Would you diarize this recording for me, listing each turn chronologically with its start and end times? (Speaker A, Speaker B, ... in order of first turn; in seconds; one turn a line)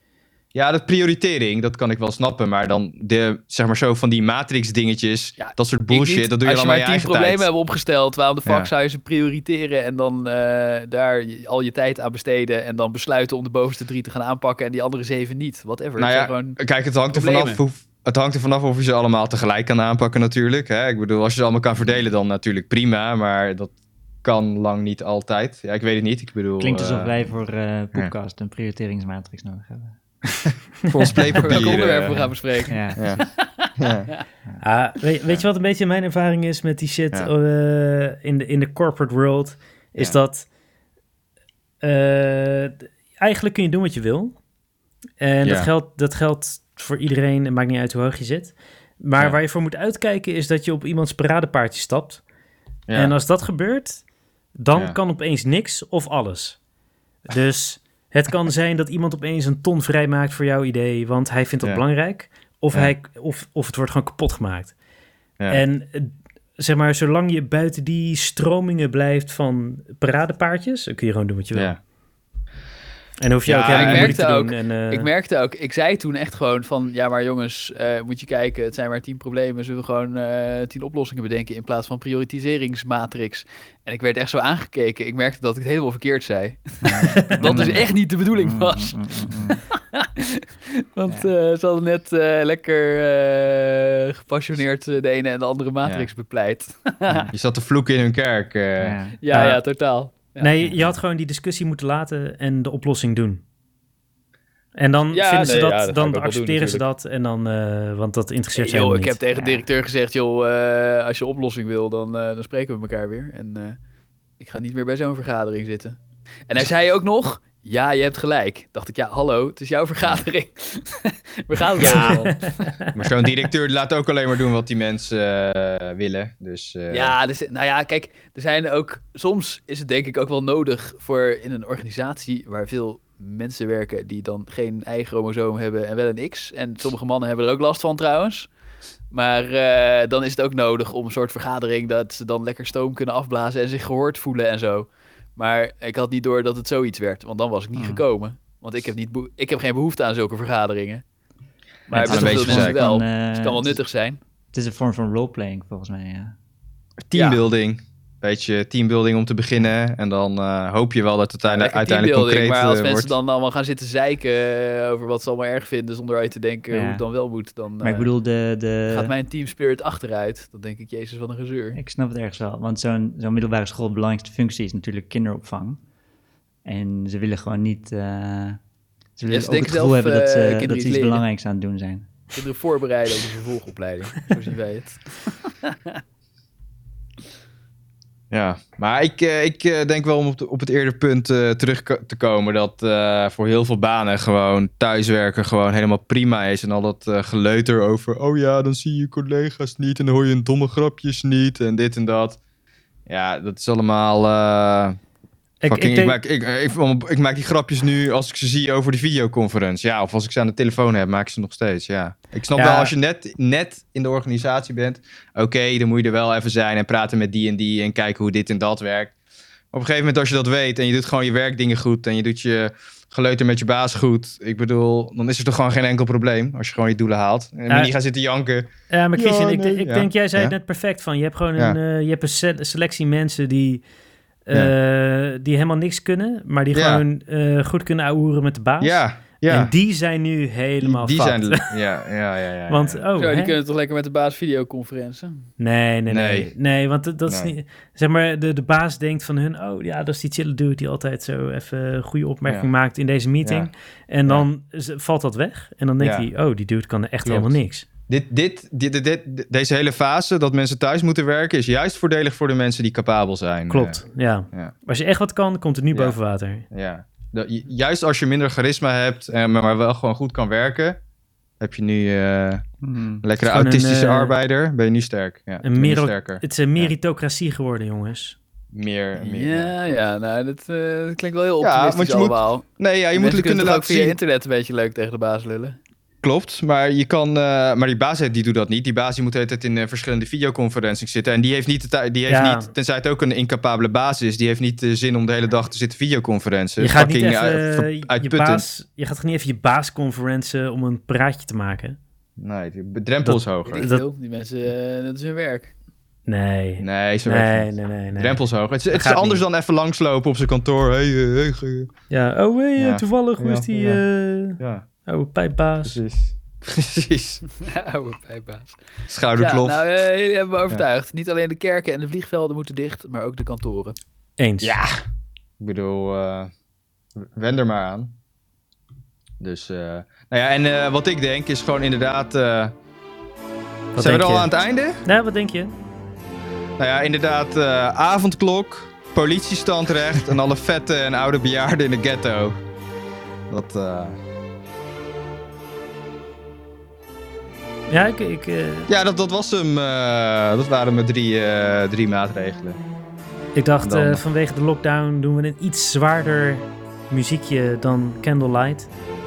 Speaker A: 0.5-7.5
Speaker B: 5.4-16.6
Speaker A: 16.0-23.7
Speaker B: 17.1-17.6
Speaker A: 24.2-27.3
Speaker C: 26.6-30.0
Speaker A: 30.4-32.2
Speaker C: 31.1-33.0
Speaker B: 31.3-34.2
Speaker A: 32.9-33.2
Speaker A: 33.8-34.1
Speaker D: 34.6-40.5
Speaker D: 41.8-44.4
Speaker D: 45.2-52.2
Speaker A: 45.4-45.7
Speaker A: 52.9-53.1
Speaker D: 52.9-54.0
Speaker D: 54.5-56.6
Speaker D: 57.3-64.7
Speaker D: 65.5-71.7
Speaker A: 71.5-71.8
Speaker D: 73.2-75.1
Speaker A: 73.4-74.2
Speaker B: 73.7-97.3
Speaker C: 86.8-89.6
Speaker D: 87.2-87.6
Speaker A: 97.3-99.0
Speaker C: 98.8-99.2
Speaker B: 99.2-100.5
Speaker D: 99.3-99.6
Speaker D: 100.3-103.4
Speaker C: 100.6-100.9
Speaker D: 104.8-109.2
Speaker B: 105.1-106.8
Speaker B: 108.5-113.8
Speaker C: 109.3-109.6
Speaker B: 114.4-122.8
Speaker A: 121.8-122.2
Speaker D: 121.8-122.9
Speaker A: 122.9-127.1
Speaker B: 126.9-138.5
Speaker B: 139.1-151.0
Speaker C: 147.8-148.0
Speaker B: 151.9-154.2
Speaker C: 151.9-153.8
Speaker A: 151.9-152.8
Speaker C: 154.5-156.3
Speaker A: 157.0-163.2
Speaker B: 157.1-157.4
Speaker B: 161.4-168.1
Speaker C: 166.7-167.0
Speaker C: 167.8-169.1
Speaker B: 168.9-171.8
Speaker C: 171.7-175.8
Speaker C: 176.6-178.6
Speaker C: 179.2-182.1
Speaker B: 179.3-181.2
Speaker B: 182.3-185.9
Speaker A: 188.3-202.4
Speaker A: 203.1-205.0
Speaker D: 205.6-206.2
Speaker A: 205.7-219.1
Speaker D: 212.5-212.9
Speaker A: 219.7-230.5
Speaker D: 228.9-233.8
Speaker D: 234.4-241.7
Speaker A: 236.7-237.0
Speaker A: 238.8-239.7
Speaker A: 240.8-243.0
Speaker D: 242.7-243.6
Speaker B: 243.2-245.5
Speaker D: 245.6-257.9
Speaker A: 246.1-246.5
Speaker A: 247.3-247.5
Speaker A: 253.4-253.7
Speaker A: 256.0-256.3
Speaker A: 257.2-257.5
Speaker A: 258.1-264.7
Speaker D: 263.7-266.6
Speaker A: 266.7-271.0
Speaker A: 271.6-272.6
Speaker C: 272.8-273.2
Speaker A: 273.2-276.9
Speaker D: 273.4-274.3
Speaker D: 275.6-278.4
Speaker A: 278.7-279.7
Speaker B: 279.2-285.8
Speaker A: 281.6-284.1
Speaker A: 286.2-298.6
Speaker D: 292.3-292.7
Speaker D: 296.8-302.0
Speaker A: 302.4-303.8
Speaker D: 303.2-304.0
Speaker B: 303.7-305.7
Speaker D: 306.3-309.4
Speaker A: 306.8-311.9
Speaker D: 312.1-316.0
Speaker A: 312.8-314.9
Speaker A: 315.8-317.5
Speaker B: 317.6-318.8
Speaker A: 319.1-319.8
Speaker B: 319.3-323.9
Speaker D: 324.4-324.7
Speaker A: 324.6-325.0
Speaker A: 325.6-326.5
Speaker A: 327.2-328.1
Speaker A: 329.4-332.7
Speaker D: 333.9-334.5
Speaker A: 334.0-335.0
Speaker D: 335.0-335.7
Speaker A: 336.8-342.6
Speaker A: 343.5-344.2
Speaker D: 347.9-348.9
Speaker A: 348.9-352.8
Speaker D: 353.5-358.9
Speaker A: 353.8-354.2